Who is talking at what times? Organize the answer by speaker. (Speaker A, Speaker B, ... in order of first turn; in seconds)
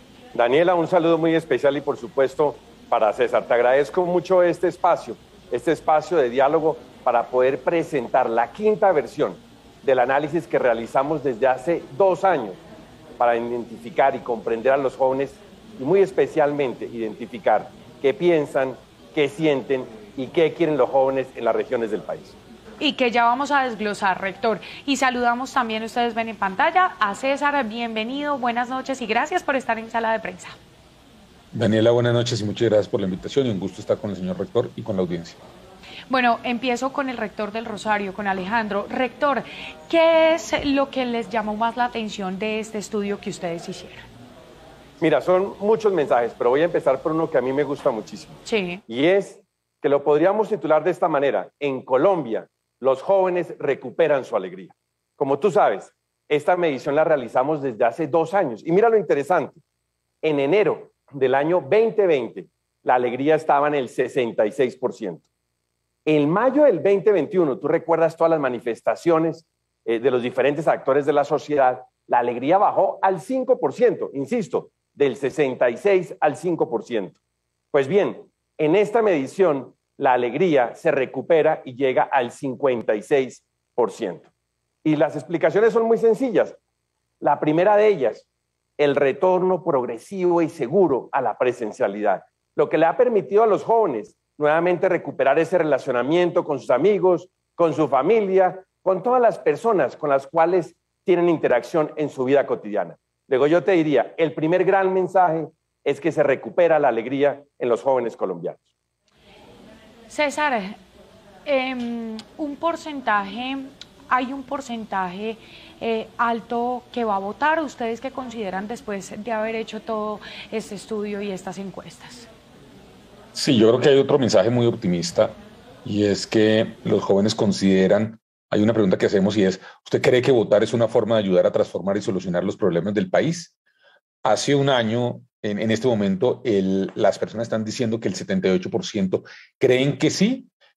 Speaker A: 0.3-12.6, 13.2-22.3, 45.0-59.6, 60.2-65.2, 66.0-77.2, 77.7-84.3, 84.8-86.6, 87.2-88.2, 88.8-108.6
Speaker B: 22.8-30.5, 36.1-44.0, 48.5-48.8, 110.1-110.8, 111.5-122.3
Speaker C: 31.5-35.4, 123.3-133.5, 134.2-140.5